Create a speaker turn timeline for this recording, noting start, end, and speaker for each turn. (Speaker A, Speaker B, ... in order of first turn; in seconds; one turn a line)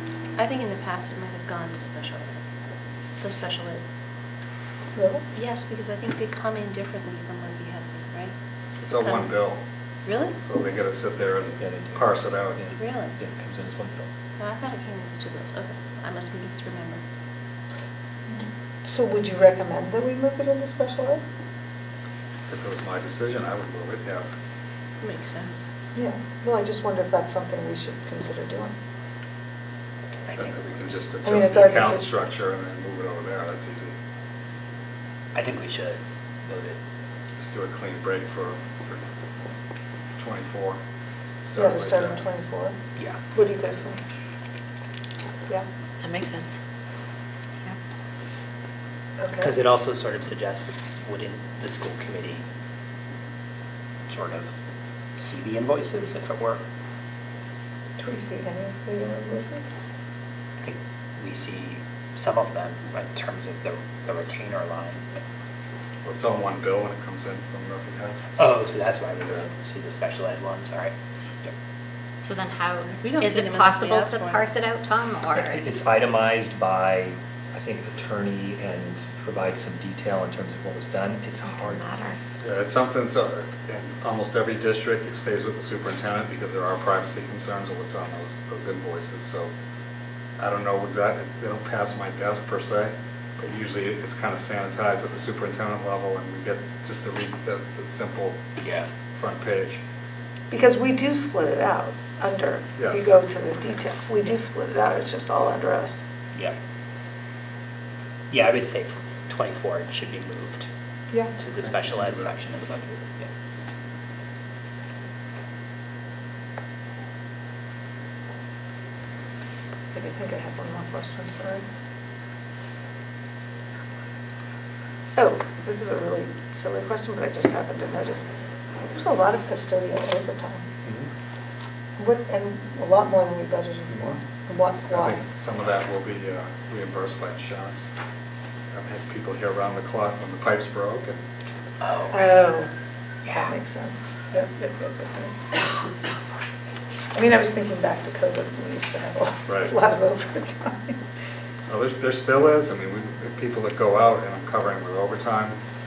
Speaker A: 0.4-2.4
Speaker A: 3.2-3.8
Speaker B: 5.0-5.2
Speaker A: 5.3-8.3
Speaker C: 8.8-9.6
Speaker A: 9.0-9.3
Speaker A: 10.1-10.3
Speaker C: 10.4-12.6
Speaker D: 11.6-14.1
Speaker A: 12.8-13.2
Speaker A: 14.4-17.0
Speaker B: 18.3-21.2
Speaker C: 22.5-24.3
Speaker A: 25.0-25.6
Speaker B: 25.9-28.7
Speaker E: 30.3-30.6
Speaker C: 30.4-34.0
Speaker B: 31.2-32.0
Speaker E: 35.3-36.8
Speaker C: 37.4-39.0
Speaker C: 40.2-40.8
Speaker C: 41.4-42.2
Speaker B: 41.6-42.8
Speaker B: 43.3-44.0
Speaker F: 46.0-46.6
Speaker B: 49.2-49.6
Speaker E: 49.4-52.4
Speaker E: 54.1-54.5
Speaker E: 55.2-56.6
Speaker B: 58.0-59.6
Speaker E: 60.6-65.2
Speaker C: 66.0-68.2
Speaker E: 68.4-71.5
Speaker F: 72.2-75.6
Speaker A: 73.0-74.4
Speaker D: 75.3-81.8
Speaker F: 81.4-82.2
Speaker C: 82.4-89.5
Speaker C: 90.4-98.4
Speaker E: 98.6-98.9
Speaker C: 99.2-99.8
Speaker B: 100.5-106.0
Speaker C: 102.8-103.1
Speaker E: 108.3-110.7
Speaker B: 111.1-111.4
Speaker E: 111.4-113.3
Speaker C: 111.9-112.3
Speaker B: 119.9-121.6
Speaker B: 125.2-128.3
Speaker B: 128.8-130.7
Speaker B: 132.0-135.2
Speaker C: 133.9-134.2
Speaker C: 134.7-137.8
Speaker C: 138.7-141.2
Speaker E: 141.8-142.1
Speaker B: 142.1-142.7
Speaker B: 143.3-145.8
Speaker B: 147.2-151.0
Speaker C: 149.5-149.7
Speaker C: 151.7-155.6